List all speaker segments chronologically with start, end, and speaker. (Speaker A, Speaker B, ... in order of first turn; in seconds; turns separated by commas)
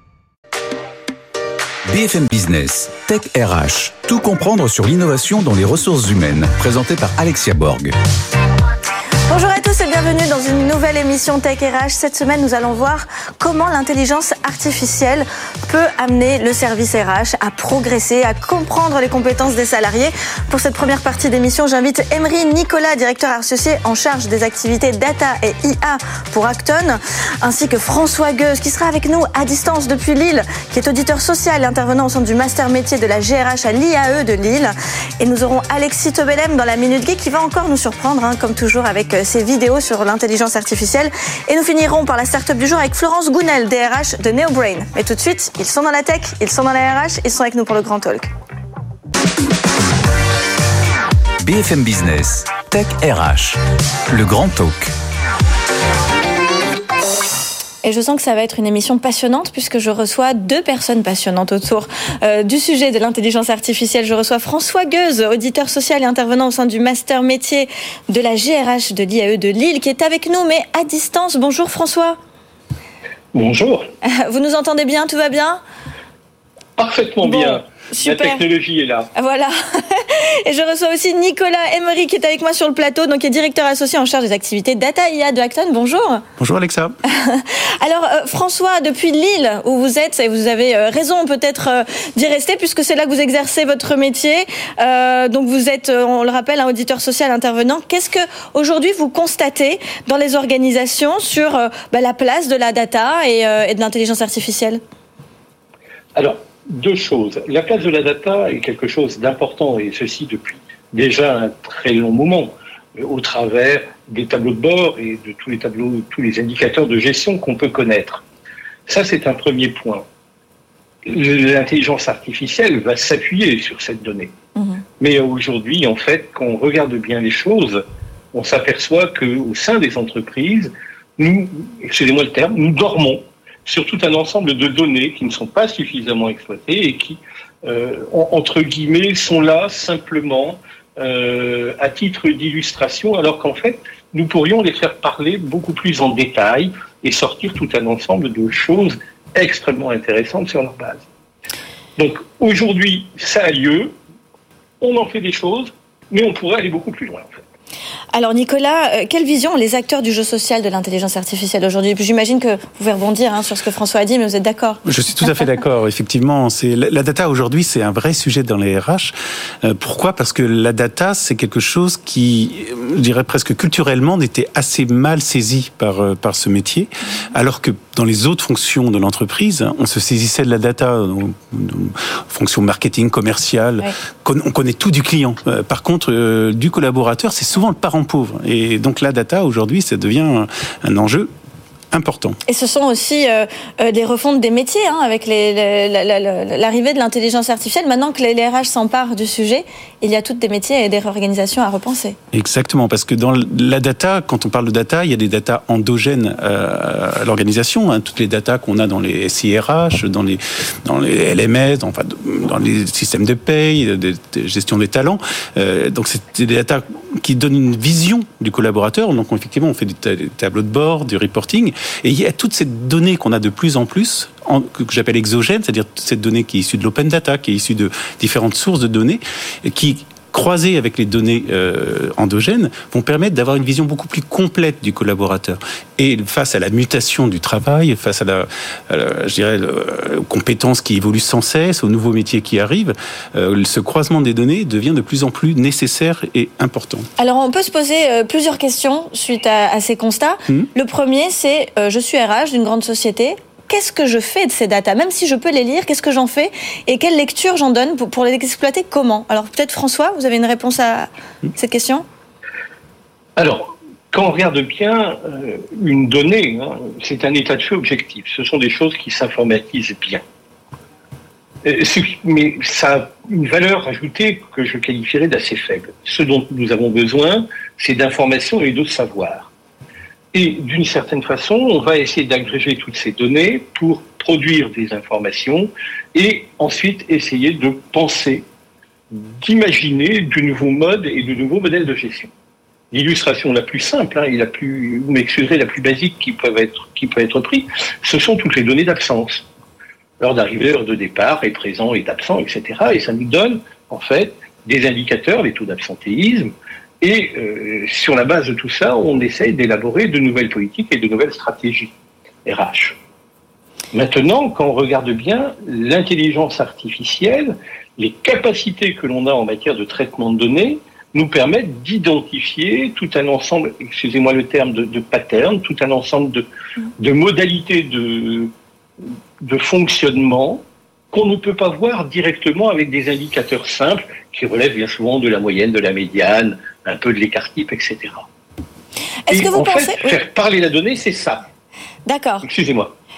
Speaker A: 1.9-7.9, Speaker B: 9.3-48.3, Speaker A: 51.4-54.9, Speaker B: 57.8-72.2, Speaker C: 73.3-73.9, Speaker B: 74.0-75.6, Speaker C: 76.8-79.1, Speaker B: 77.2-78.4, Speaker B: 79.1-86.2, Speaker D: 86.4-86.9, Speaker B: 87.0-104.8, Speaker C: 106.1-118.2, Speaker C: 118.9-120.0, Speaker C: 121.0-124.3, Speaker B: 124.5-124.8, Speaker C: 125.0-127.8, Speaker C: 128.3-151.0, Speaker C: 152.0-153.9, Speaker C: 154.8-157.4, Speaker B: 158.1-164.8, Speaker D: 164.8-191.3, Speaker D: 191.9-192.4, Speaker B: 192.5-202.2, Speaker D: 202.3-247.1, Speaker B: 247.2-262.0, Speaker C: 263.4-270.2, Speaker C: 271.6-279.5, Speaker C: 280.3-288.4, Speaker C: 289.1-292.3, Speaker C: 292.9-299.4, Speaker C: 300.2-311.9, Speaker C: 312.4-313.0, Speaker C: 313.9-326.4, Speaker C: 327.0-328.5, Speaker C: 329.4-338.3, Speaker B: 339.3-340.2, Speaker C: 339.3-341.4, Speaker B: 342.1-342.5, Speaker C: 342.4-342.9